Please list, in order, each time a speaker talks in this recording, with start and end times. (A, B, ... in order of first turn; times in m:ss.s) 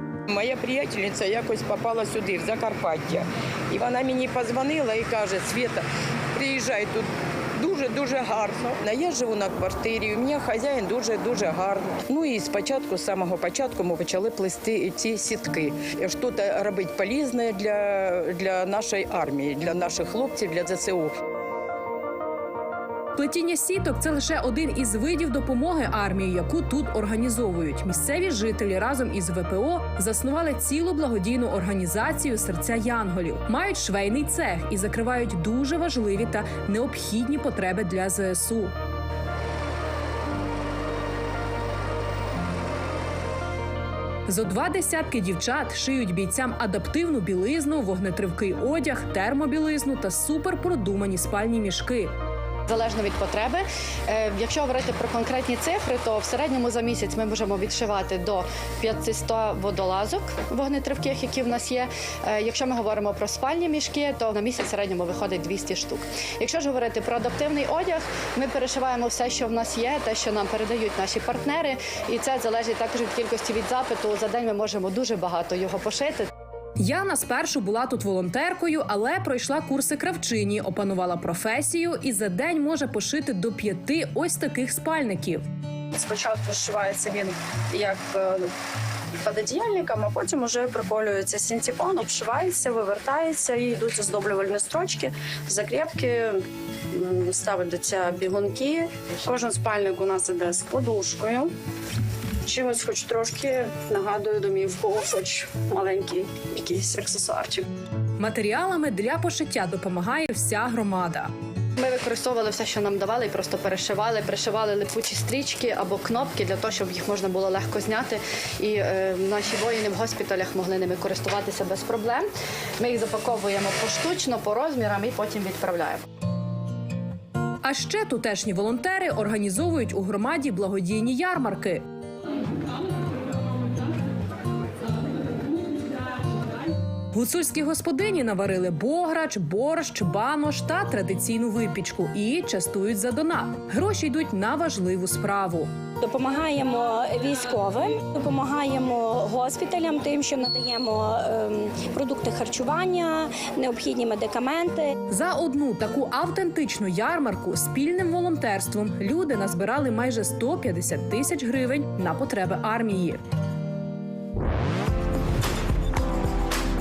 0:00.3-0:21.1 A
0:23.2-0:38.7 B
0:44.3-0:52.1 B
0:52.7-1:16.3 C
1:16.8-1:25.4 B
1:26.0-1:28.5 D
1:29.2-1:41.5 D
1:42.4-1:47.7 D
1:48.2-1:51.3 B
1:51.8-2:02.3 C
2:02.8-2:06.0 C
2:07.6-2:11.8 B
2:17.1-2:25.7 B
2:26.0-2:34.9 E
2:35.1-2:43.2 B